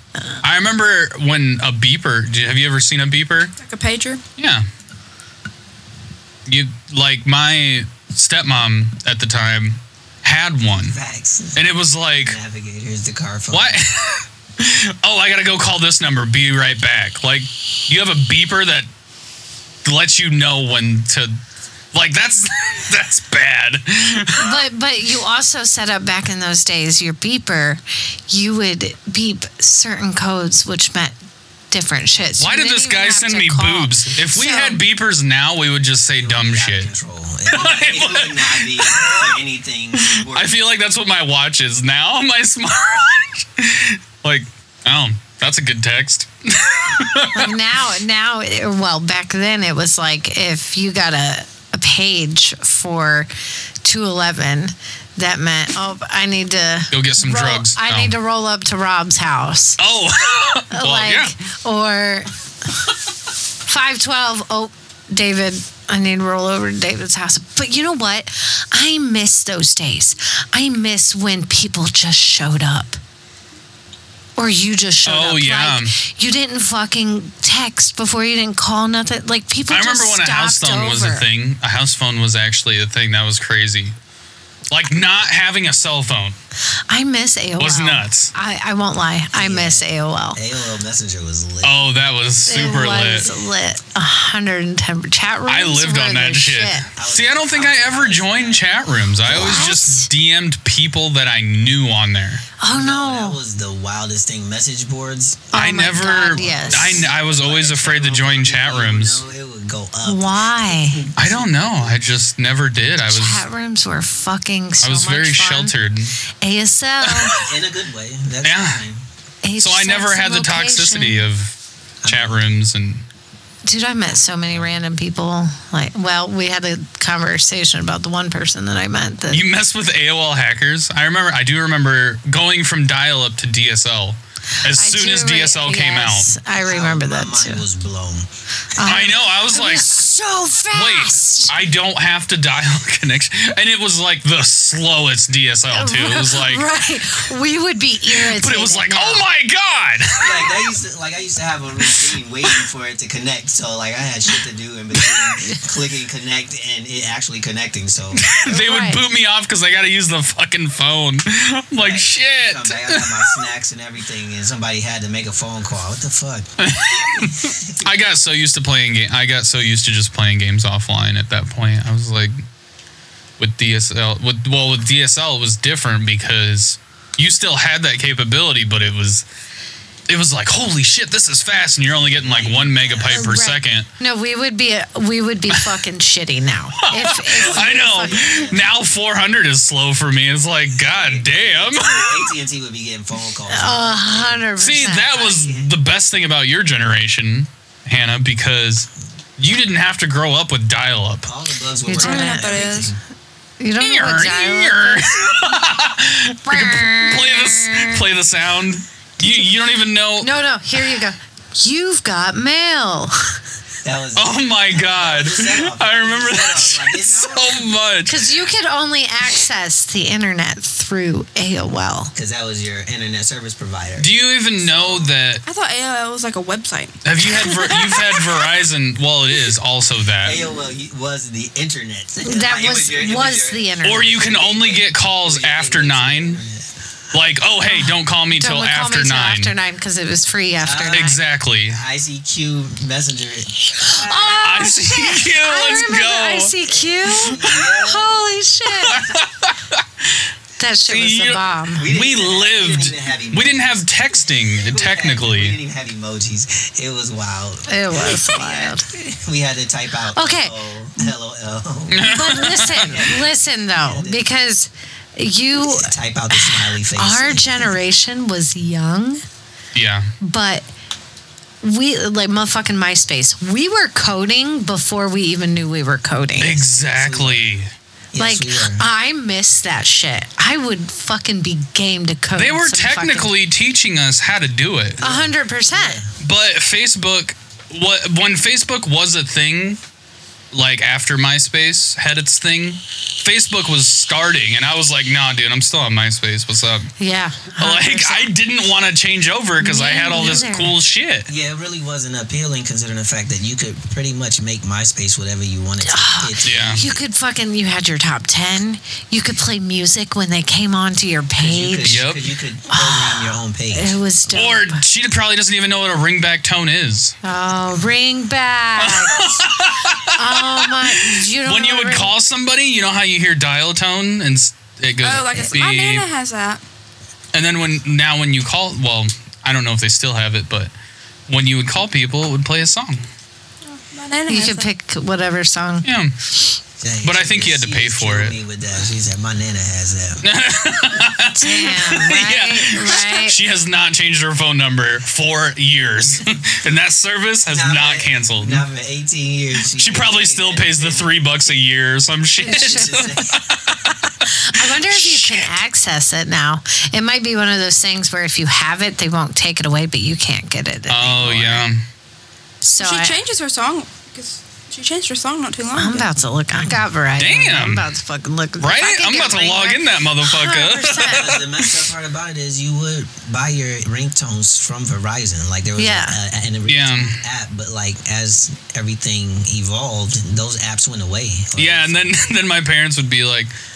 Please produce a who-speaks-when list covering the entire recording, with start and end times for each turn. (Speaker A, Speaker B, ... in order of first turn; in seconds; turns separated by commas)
Speaker A: 0.4-3.5, Speaker B: 3.6-4.2, Speaker A: 4.4-4.7, Speaker A: 6.5-11.0, Speaker C: 10.7-11.6, Speaker A: 11.6-12.4, Speaker C: 12.2-13.8, Speaker A: 13.5-18.9, Speaker A: 19.8-21.3, Speaker A: 21.9-24.6, Speaker D: 24.4-31.1, Speaker D: 31.7-34.8, Speaker A: 32.4-36.9, Speaker C: 36.2-40.5, Speaker A: 37.5-39.4, Speaker A: 39.9-47.5, Speaker D: 47.3-53.3, Speaker D: 53.8-59.8, Speaker A: 56.9-58.1, Speaker A: 59.8-61.3, Speaker D: 60.7-62.3, Speaker D: 63.6-73.0, Speaker D: 74.4-81.2, Speaker A: 75.0-75.9, Speaker A: 79.7-83.9, Speaker A: 84.7-86.3, Speaker D: 86.9-90.4, Speaker A: 87.6-88.3, Speaker C: 89.3-91.9, Speaker A: 91.6-93.3, Speaker D: 92.5-96.8, Speaker A: 95.5-102.4, Speaker C: 97.0-98.7, Speaker D: 99.2-100.1, Speaker D: 102.6-103.4, Speaker C: 102.7-105.5, Speaker D: 105.5-107.1, Speaker A: 105.5-109.2, Speaker C: 106.3-112.1, Speaker D: 110.0-111.0, Speaker A: 111.2-113.4, Speaker D: 113.0-115.7, Speaker A: 114.8-116.1, Speaker D: 116.4-117.4, Speaker A: 117.0-117.5, Speaker C: 117.3-119.0, Speaker A: 118.4-118.8, Speaker D: 119.4-121.2, Speaker A: 119.6-123.0, Speaker C: 122.0-122.4, Speaker D: 123.6-129.4, Speaker A: 129.3-136.3, Speaker D: 134.7-137.6, Speaker C: 136.6-139.0, Speaker D: 138.8-141.5, Speaker A: 138.8-140.0, Speaker A: 140.7-146.7, Speaker D: 145.7-149.2, Speaker A: 148.1-150.7, Speaker C: 150.2-158.2, Speaker A: 155.0-155.3, Speaker A: 158.1-163.4, Speaker D: 158.5-159.0, Speaker C: 161.8-166.5, Speaker A: 166.6-172.4, Speaker C: 167.2-167.8, Speaker A: 173.4-179.2, Speaker A: 180.1-183.9, Speaker C: 182.2-183.4, Speaker D: 183.1-188.4, Speaker A: 186.8-192.2, Speaker C: 187.3-188.7, Speaker C: 190.7-194.5, Speaker D: 193.5-195.3, Speaker A: 194.6-201.3, Speaker C: 195.1-195.7, Speaker C: 201.2-203.0, Speaker D: 201.8-202.6, Speaker B: 202.0-202.9, Speaker D: 203.6-205.1, Speaker A: 203.8-210.4, Speaker D: 206.5-208.0, Speaker D: 209.2-209.4, Speaker D: 210.2-213.4, Speaker C: 213.8-217.7, Speaker A: 214.2-218.2, Speaker D: 218.1-222.1, Speaker C: 222.1-225.1, Speaker A: 224.0-225.4, Speaker B: 225.4-227.0, Speaker A: 227.0-230.4, Speaker C: 230.2-236.7, Speaker D: 232.2-234.2, Speaker A: 233.8-236.4, Speaker A: 237.1-239.5, Speaker D: 237.7-241.2, Speaker C: 240.6-244.7, Speaker A: 240.9-241.8, Speaker D: 243.8-249.1, Speaker A: 244.4-246.5, Speaker C: 247.2-248.2, Speaker A: 248.8-250.2, Speaker D: 250.6-251.9, Speaker A: 250.9-255.6, Speaker C: 251.7-253.8, Speaker C: 254.6-262.2, Speaker D: 257.7-258.8, Speaker D: 260.1-261.1, Speaker A: 261.9-263.0, Speaker D: 262.0-269.2, Speaker C: 262.8-264.3, Speaker C: 265.6-267.7, Speaker A: 269.7-270.1, Speaker D: 270.2-270.7, Speaker D: 271.6-276.6, Speaker A: 276.4-277.7, Speaker C: 276.8-277.4, Speaker C: 278.1-278.9, Speaker D: 278.2-283.3, Speaker A: 282.3-285.0, Speaker C: 285.0-286.1, Speaker D: 285.0-286.0, Speaker A: 286.2-289.8, Speaker A: 290.5-296.9, Speaker D: 297.0-298.3, Speaker A: 297.6-301.3, Speaker D: 299.6-300.7, Speaker C: 301.3-307.0, Speaker D: 305.8-312.0, Speaker A: 306.4-306.8, Speaker C: 311.4-313.9, Speaker A: 311.9-312.2, Speaker D: 312.7-314.8, Speaker A: 314.3-317.1, Speaker D: 317.2-322.1, Speaker A: 318.8-326.1, Speaker B: 325.0-326.6, Speaker A: 327.3-330.7, Speaker A: 331.3-333.0, Speaker B: 333.7-334.7, Speaker D: 334.3-335.9, Speaker A: 335.8-336.1, Speaker C: 336.8-340.2, Speaker A: 337.0-338.4, Speaker A: 340.2-348.6, Speaker D: 341.3-343.4, Speaker C: 347.5-351.6, Speaker A: 349.7-355.5, Speaker D: 352.4-353.1, Speaker C: 352.4-353.5, Speaker D: 354.2-361.6, Speaker A: 360.9-361.8, Speaker D: 362.6-363.2, Speaker B: 362.8-366.1, Speaker D: 365.7-371.3, Speaker A: 367.2-367.9, Speaker A: 368.6-371.9, Speaker C: 371.0-382.1, Speaker D: 375.8-376.2, Speaker A: 376.7-377.2, Speaker A: 381.6-383.5